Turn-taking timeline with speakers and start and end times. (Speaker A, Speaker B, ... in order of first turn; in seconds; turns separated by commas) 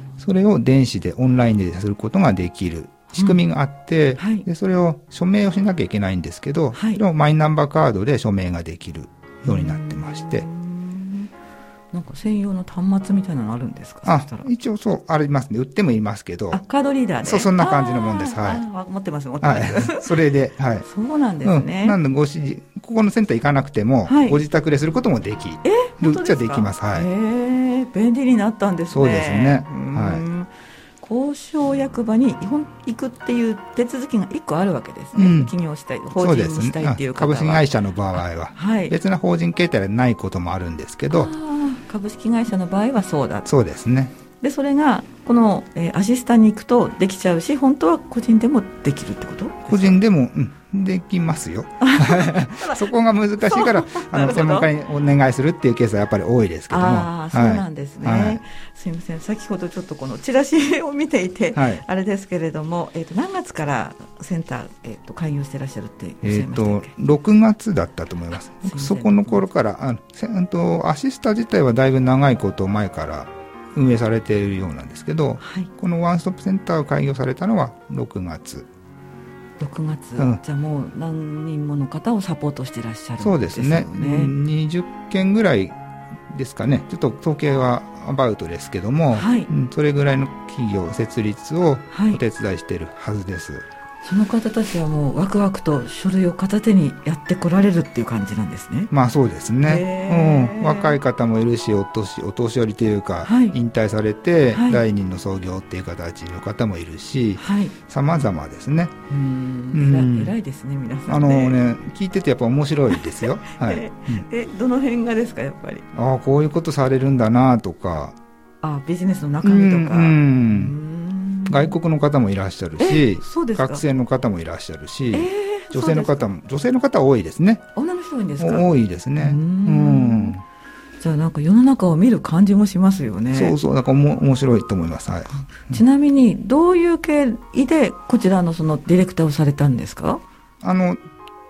Speaker A: 0.2-10.5, Speaker B: 3.1-3.4, Speaker B: 4.2-4.5, Speaker B: 6.7-7.0, Speaker B: 9.5-11.3, Speaker B: 11.9-14.5, Speaker A: 14.1-16.6, Speaker B: 16.5-20.1, Speaker A: 17.2-18.6, Speaker A: 19.4-20.9, Speaker B: 20.8-22.0, Speaker A: 21.4-27.1, Speaker B: 24.1-24.4, Speaker B: 25.6-30.5, Speaker A: 28.9-30.2, Speaker B: 31.0-37.7, Speaker A: 35.1-35.5, Speaker A: 36.1-41.3, Speaker B: 38.5-38.9, Speaker B: 41.1-43.5, Speaker A: 43.5-44.1, Speaker B: 44.4-50.0, Speaker A: 49.7-58.4, Speaker B: 51.8-54.7, Speaker B: 56.7-66.9, Speaker A: 61.5-61.8, Speaker A: 66.2-78.7, Speaker B: 68.6-69.5, Speaker B: 75.4-75.7, Speaker B: 79.6-84.3, Speaker A: 83.2-85.7, Speaker A: 86.3-93.7, Speaker B: 89.1-89.5, Speaker B: 91.9-92.2, Speaker B: 94.0-98.9, Speaker A: 98.9-109.0, Speaker B: 99.7-101.0, Speaker B: 103.2-103.6, Speaker B: 104.5-104.8, Speaker B: 107.4-107.8, Speaker B: 109.1-111.6, Speaker A: 109.7-110.3, Speaker A: 111.1-114.2, Speaker B: 112.9-115.8, Speaker A: 115.9-118.2, Speaker B: 118.6-121.7, Speaker A: 119.4-120.7, Speaker A: 121.5-127.6, Speaker B: 122.8-123.8, Speaker B: 125.1-126.2, Speaker B: 127.8-130.3, Speaker A: 128.4-130.4, Speaker B: 131.0-133.6, Speaker A: 133.3-135.8, Speaker B: 135.7-140.2, Speaker A: 140.6-141.0